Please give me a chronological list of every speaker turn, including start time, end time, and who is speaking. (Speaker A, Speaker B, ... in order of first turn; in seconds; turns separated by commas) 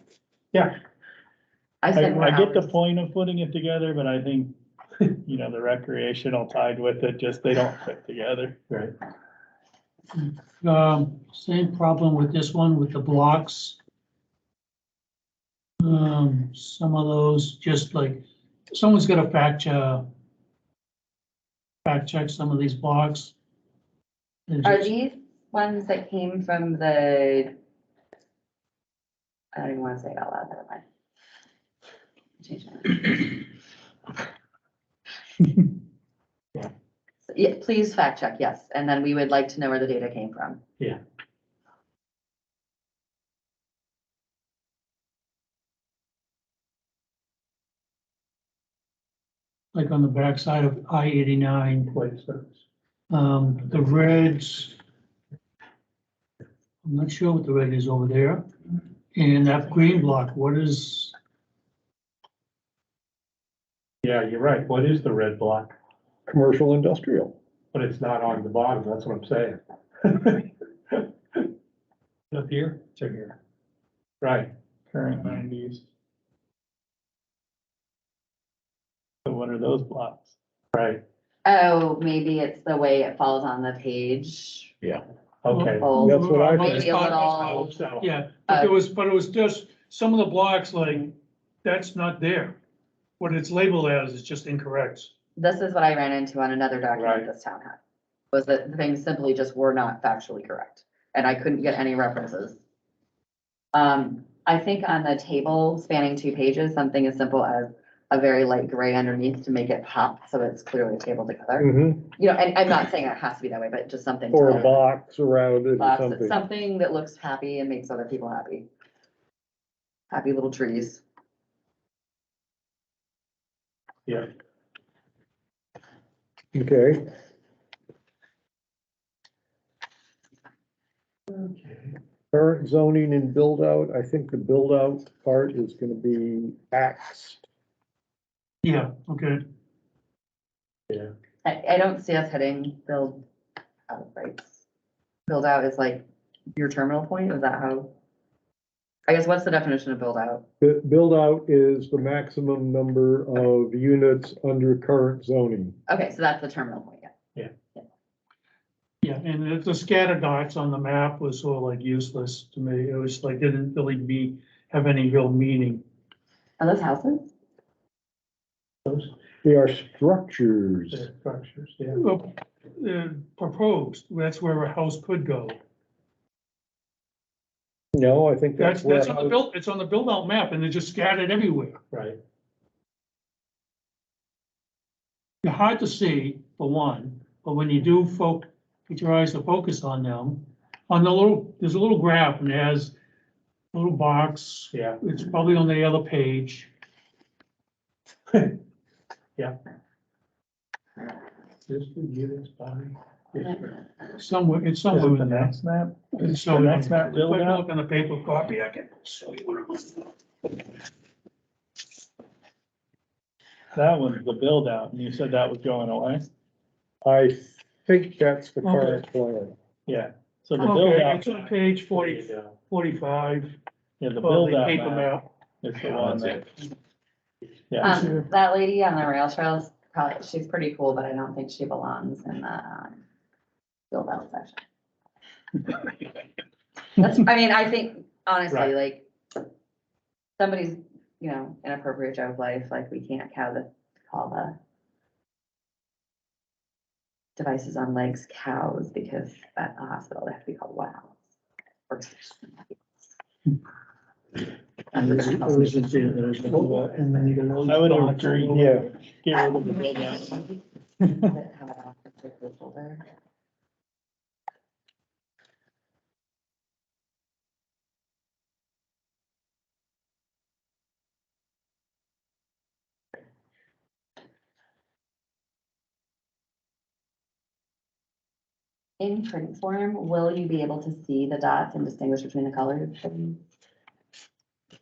Speaker A: 1.8-2.7, Speaker B: 1.9-8.6, Speaker C: 10.2-13.8, Speaker C: 15.8-20.0, Speaker C: 21.8-23.3, Speaker C: 24.5-24.9, Speaker A: 24.6-27.5, Speaker A: 29.5-30.8, Speaker A: 32.4-33.4, Speaker A: 37.3-40.6, Speaker C: 49.7-51.9, Speaker D: 51.9-52.6, Speaker C: 53.1-54.8, Speaker C: 56.8-58.5, Speaker C: 59.1-61.1, Speaker D: 64.0-65.7, Speaker E: 66.3-67.3, Speaker D: 67.7-71.5, Speaker D: 72.3-73.3, Speaker B: 73.0-73.3, Speaker D: 74.2-74.5, Speaker B: 74.9-75.8, Speaker B: 79.2-80.3, Speaker D: 80.7-81.0, Speaker A: 81.4-84.7, Speaker D: 85.4-85.9, Speaker C: 85.5-92.6, Speaker A: 85.8-87.8, Speaker E: 86.0-86.9, Speaker D: 86.6-88.1, Speaker A: 88.5-88.7, Speaker C: 93.2-95.1, Speaker A: 95.4-97.8, Speaker D: 96.9-97.3, Speaker A: 98.3-102.6, Speaker A: 103.7-114.8, Speaker E: 111.6-112.1, Speaker E: 114.3-116.4, Speaker A: 115.8-118.7, Speaker A: 120.1-121.0, Speaker E: 126.5-127.0, Speaker D: 131.3-131.9, Speaker E: 132.3-137.4, Speaker C: 138.6-139.4, Speaker A: 141.4-143.2, Speaker A: 143.9-144.6, Speaker A: 145.3-147.9, Speaker A: 149.1-150.4, Speaker E: 150.6-155.8, Speaker A: 155.9-157.1, Speaker C: 159.0-165.8, Speaker A: 166.6-167.3, Speaker D: 168.8-169.1, Speaker E: 169.4-171.1, Speaker D: 170.9-172.0, Speaker C: 171.9-175.6, Speaker E: 177.9-179.3, Speaker C: 178.6-181.8, Speaker D: 181.9-182.2, Speaker C: 185.4-192.9, Speaker C: 193.7-196.7, Speaker D: 194.7-195.0, Speaker D: 198.3-198.6, Speaker D: 201.7-203.7, Speaker C: 204.2-205.5, Speaker B: 204.9-207.7, Speaker C: 206.1-210.1, Speaker B: 213.7-216.2, Speaker E: 217.0-219.5, Speaker C: 218.6-219.0, Speaker B: 219.9-221.2, Speaker C: 220.6-223.6, Speaker D: 221.0-222.5, Speaker B: 224.0-225.1, Speaker C: 224.2-225.3, Speaker B: 225.6-226.5, Speaker B: 227.7-228.0, Speaker A: 227.8-233.0, Speaker A: 233.9-234.6, Speaker A: 236.9-239.1, Speaker A: 240.4-244.6, Speaker A: 247.4-251.2, Speaker A: 251.9-252.9, Speaker A: 254.9-256.2, Speaker C: 254.9-258.8, Speaker B: 257.6-260.4, Speaker E: 258.5-258.9, Speaker A: 259.9-263.0, Speaker A: 279.0-283.4